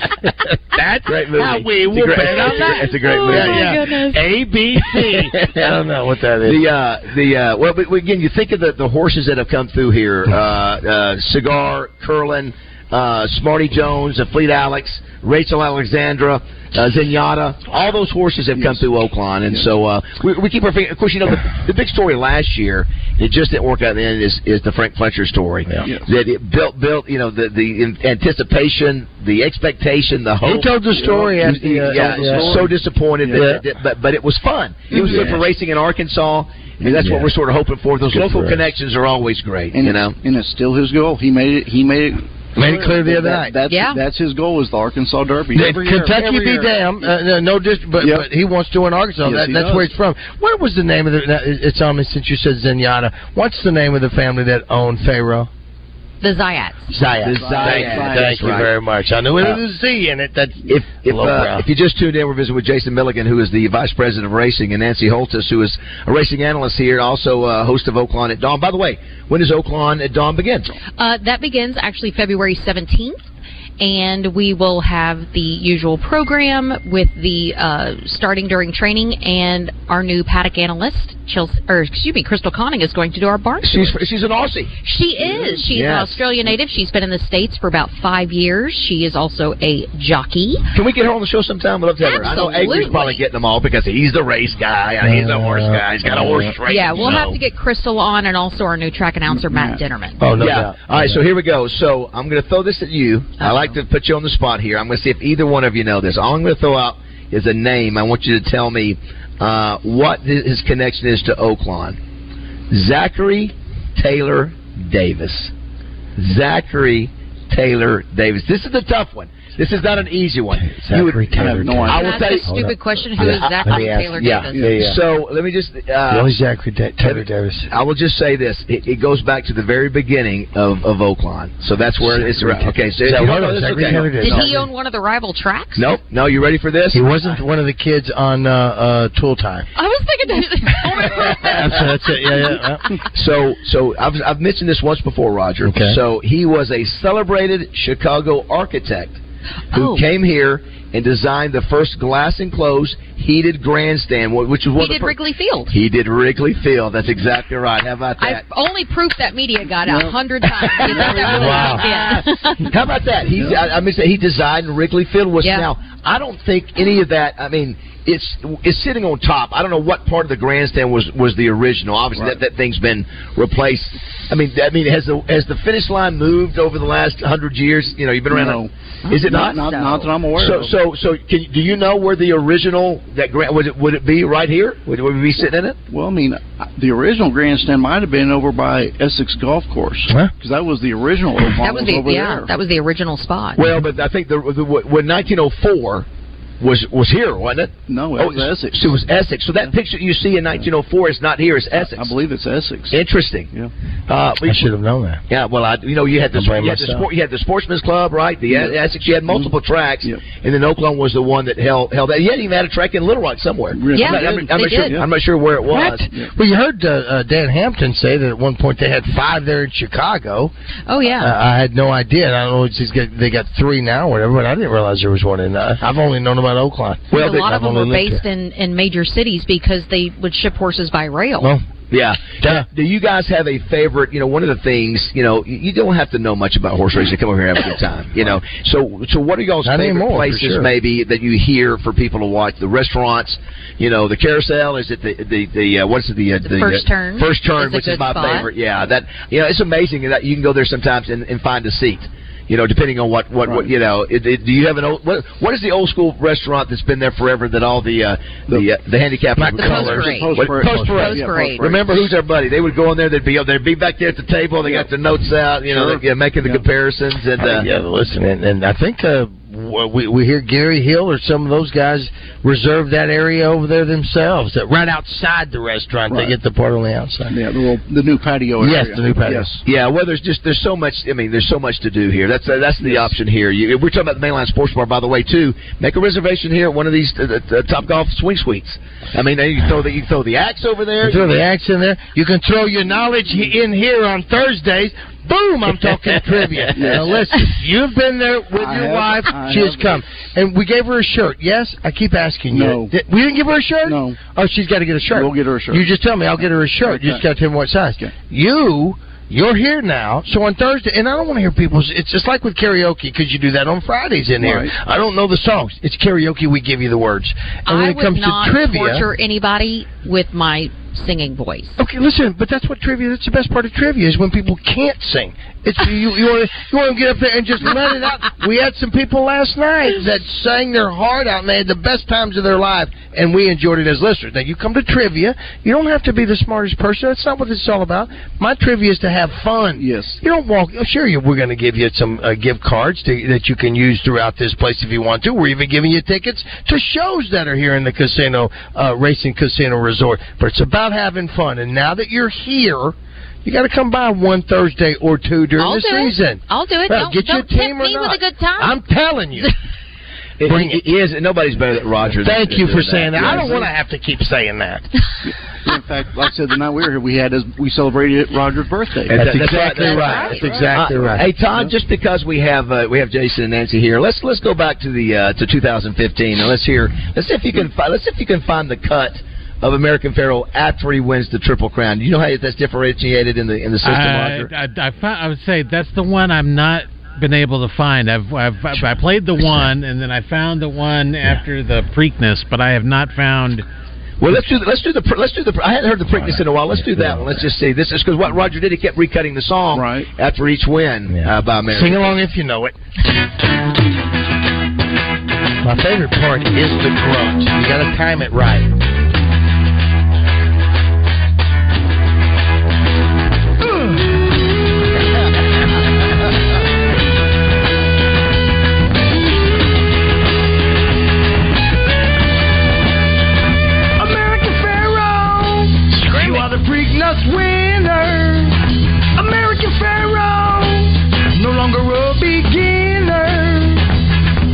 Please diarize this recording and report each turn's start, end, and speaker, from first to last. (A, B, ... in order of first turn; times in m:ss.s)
0:00.2-0:06.6 A
0:01.1-0:04.0 B
0:05.0-0:05.7 B
0:06.5-0:30.9 B
0:18.6-0:18.8 C
0:25.8-0:26.1 C
0:30.4-0:32.7 A
0:31.0-0:33.6 C
0:31.4-0:40.2 B
0:33.3-0:33.6 A
0:34.9-0:35.4 C
0:36.8-0:37.3 A
0:38.1-0:38.7 A
0:39.7-0:46.8 C
0:42.6-0:43.5 A
0:43.7-0:44.0 D
0:45.6-0:55.5 A
0:49.2-0:49.9 C
0:56.2-0:56.9 D
0:56.9-1:01.7 A
0:57.2-0:58.7 B
0:57.3-0:58.6 C
1:00.7-1:10.7 B
1:11.0-1:13.2 D
1:13.8-1:24.0 D
1:23.6-1:24.7 B
1:24.8-1:30.6 D
1:25.2-1:26.2 B
1:30.7-1:37.4 B
1:32.0-1:33.2 D
1:35.0-1:37.3 A
1:36.7-1:40.2 D
1:39.3-1:39.8 C
1:40.2-1:41.2 A
1:40.4-1:52.0 B
1:43.4-1:43.7 D
1:52.7-1:55.5 B
1:56.2-2:02.6 B
2:00.5-2:05.0 A
2:01.4-2:02.2 C
2:01.9-2:04.7 D
2:03.2-2:06.3 B
2:06.1-2:07.7 A
2:07.0-2:14.6 B
2:12.1-2:14.7 A
2:14.1-2:16.0 D
2:15.8-2:17.0 B
2:16.9-2:19.7 A
2:19.8-2:21.9 D
2:21.1-2:22.8 A
2:23.1-2:29.2 B
2:25.6-2:26.0 A
2:29.7-2:30.0 D
2:29.7-2:35.2 B
2:34.8-2:35.7 D
2:35.7-2:38.4 B
2:38.2-2:42.7 D
2:39.9-2:40.2 C
2:40.9-3:05.8 B
2:40.9-2:41.7 C
2:41.3-2:41.9 A
2:45.4-2:45.7 D
2:58.3-2:58.7 C
2:59.0-3:00.1 D
2:59.2-3:00.7 C
3:05.9-3:12.5 C
3:11.6-3:13.6 D
3:13.6-3:16.1 B
3:16.6-3:22.1 B
3:17.9-3:19.0 C
3:21.7-3:23.0 C
3:22.9-3:23.5 B
3:24.1-3:24.6 B
3:24.4-3:25.2 A
3:25.3-3:36.1 B
3:26.3-3:27.1 A
3:28.5-3:28.8 C
3:29.3-3:30.2 C
3:33.7-3:35.1 C
3:33.9-3:35.0 D
3:35.7-3:40.5 A
3:40.9-3:41.3 D
3:41.2-3:48.2 A
3:47.1-3:47.5 B
3:47.1-3:51.5 D
3:51.9-4:27.7 B
3:59.6-4:00.7 A
4:06.4-4:08.5 D
4:13.4-4:13.7 C
4:19.4-4:20.1 A
4:19.5-4:21.7 D
4:19.6-4:22.0 C
4:20.7-4:21.0 A
4:24.6-4:24.9 C
4:25.7-4:26.6 C
4:27.4-4:37.4 A
4:37.3-4:39.6 C
4:38.6-4:39.5 A
4:39.6-4:51.3 B
4:42.8-4:43.1 C
4:51.0-5:19.0 A
4:56.7-4:57.2 C
4:58.6-5:00.0 C
5:02.5-5:02.9 C
5:03.9-5:04.2 C
5:05.1-5:05.9 C
5:06.8-5:07.2 C
5:14.4-5:14.7 C
5:17.7-5:21.8 D
5:21.8-5:59.5 A
5:39.8-5:40.2 C
5:55.6-5:58.8 D
6:00.4-6:03.6 B
6:00.4-6:00.8 A
6:02.2-6:04.9 A
6:03.2-6:03.5 C
6:05.2-6:09.2 C
6:09.1-6:11.3 A
6:09.1-6:24.5 B
6:09.7-6:10.7 D
6:23.8-6:33.6 E
6:34.2-6:42.1 B
6:36.2-6:37.2 A
6:39.7-6:40.1 C
6:41.1-6:42.8 A
6:45.6-6:48.7 A
6:53.7-6:54.0 F
7:04.0-7:08.6 F
7:09.2-7:13.9 F